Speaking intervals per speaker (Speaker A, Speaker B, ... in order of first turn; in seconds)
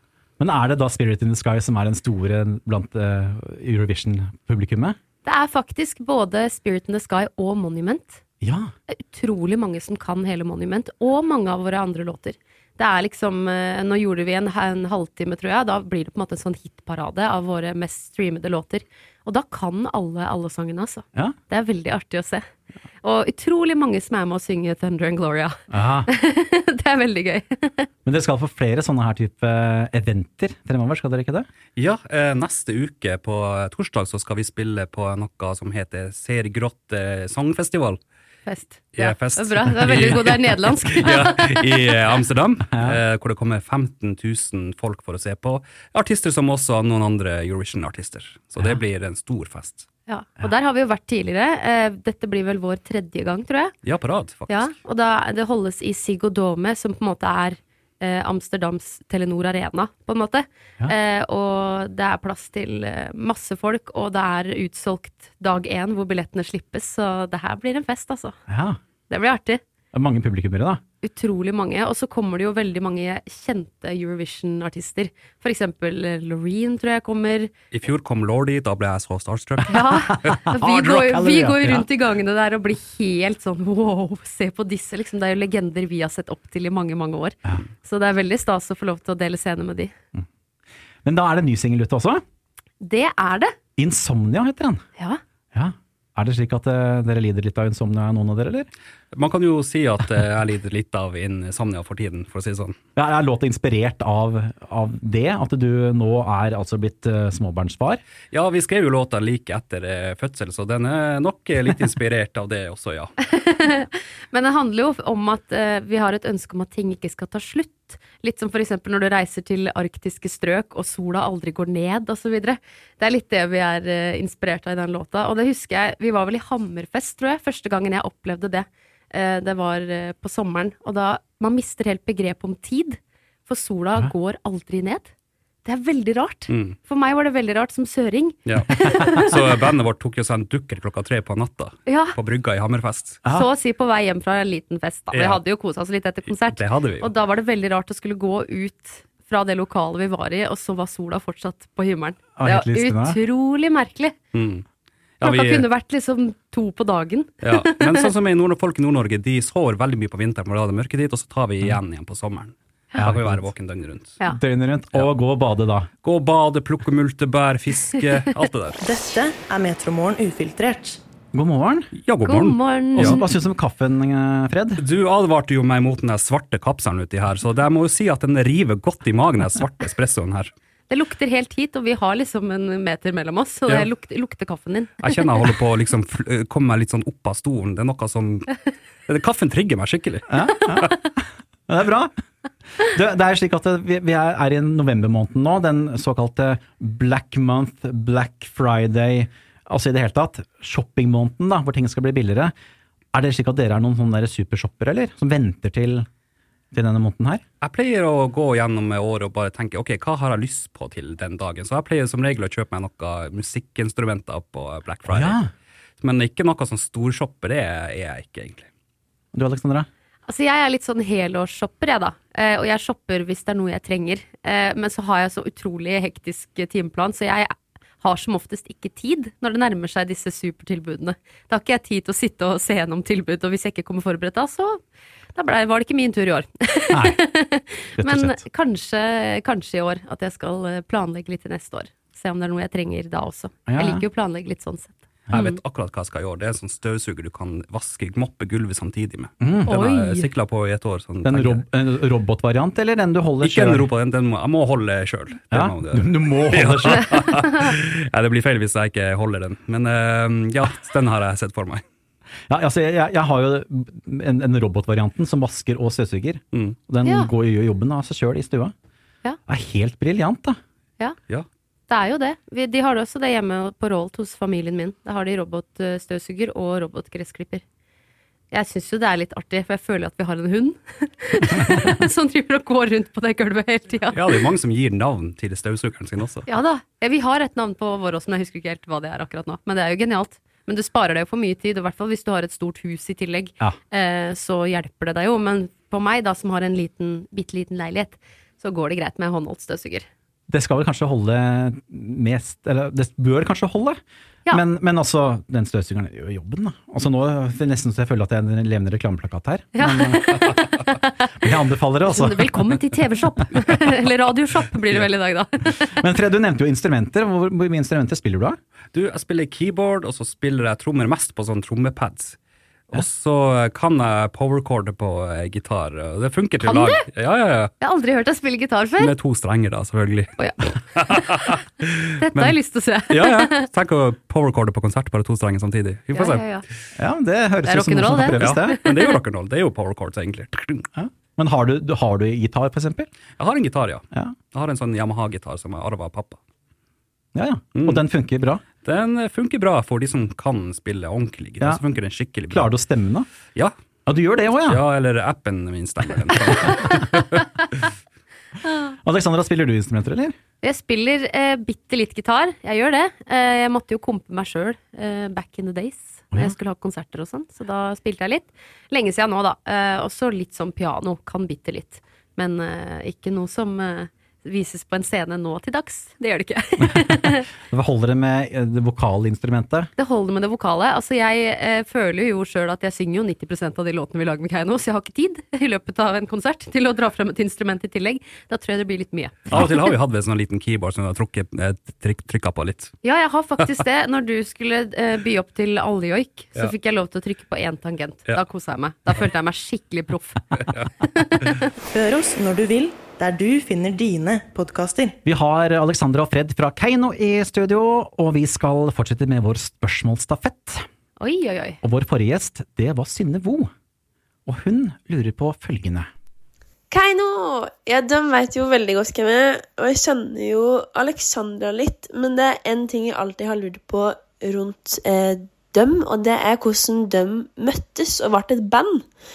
Speaker A: 0.4-5.0, 8.4-8.7, 25.7-26.1, 28.0-31.5, 68.5-68.8, 69.9-70.8, 80.1-81.8, 91.0-92.2, 93.8-94.8, 95.5-98.7, 103.0-108.0, 152.3-153.2, 163.0-163.5, 164.2-165.9, 171.3-171.9, 173.0-174.8, 190.3-192.1, 192.8-202.5, 203.1-206.1, 206.7-207.4, 215.1-215.5, 219.3-219.9, 236.9-237.2, 238.0-238.4, 243.7-244.0, 249.4-249.7, 251.2-253.9, 255.5-257.4, 262.5-268.7, 269.5-270.6, 300.5-310.5, 311.4-312.6, 316.0-318.6, 336.9-338.8, 340.9-343.1, 347.3-348.6, 352.5-353.3, 354.1-354.8, 359.0-360.3, 376.9-379.9, 405.2-410.9, 411.8-413.7, 414.4-416.1
Speaker B: 5.2-8.2, 8.9-22.4, 23.0-27.9, 38.5-41.9, 50.1-53.7, 54.5-68.4, 69.1-69.6, 71.0-77.5, 79.7-89.9, 92.8-93.5, 113.2-135.1, 135.6-139.4, 141.9-142.1, 143.3-154.1, 155.2-158.1, 172.2-173.2, 180.9-185.4, 220.3-234.8, 235.3-245.6, 249.7-250.3, 267.0-267.3, 271.9-277.6, 278.5-284.4, 286.4-300.1, 309.7-310.6, 312.1-315.9, 326.6-327.1, 327.8-329.1, 330.4-331.6, 332.2-333.7, 336.1-336.6, 337.6-339.2, 360.6-377.5, 380.0-389.8, 393.0-401.7, 411.2-411.8
Speaker C: 31.8-38.0, 38.9-49.9, 53.8-54.7, 77.7-79.8, 99.1-102.8, 108.3-113.1, 136.5-136.8, 138.5-143.2, 145.1-145.4, 146.3-147.1, 154.3-154.6, 155.2-155.7, 157.4-164.2, 166.0-168.8, 172.0-173.2, 174.8-180.5, 185.0-190.9, 207.6-215.4, 216.0-218.7, 245.3-251.6, 253.4-261.8, 284.1-286.4, 318.9-322.4, 322.9-327.7, 329.0-330.3, 330.9-332.5, 333.1-336.4, 338.4-340.9, 343.4-346.4, 347.7-348.0, 348.8-352.7, 354.6-357.5, 389.5-392.9
Speaker D: 168.8-171.0, 401.9-405.2
Speaker E: 416.9-429.1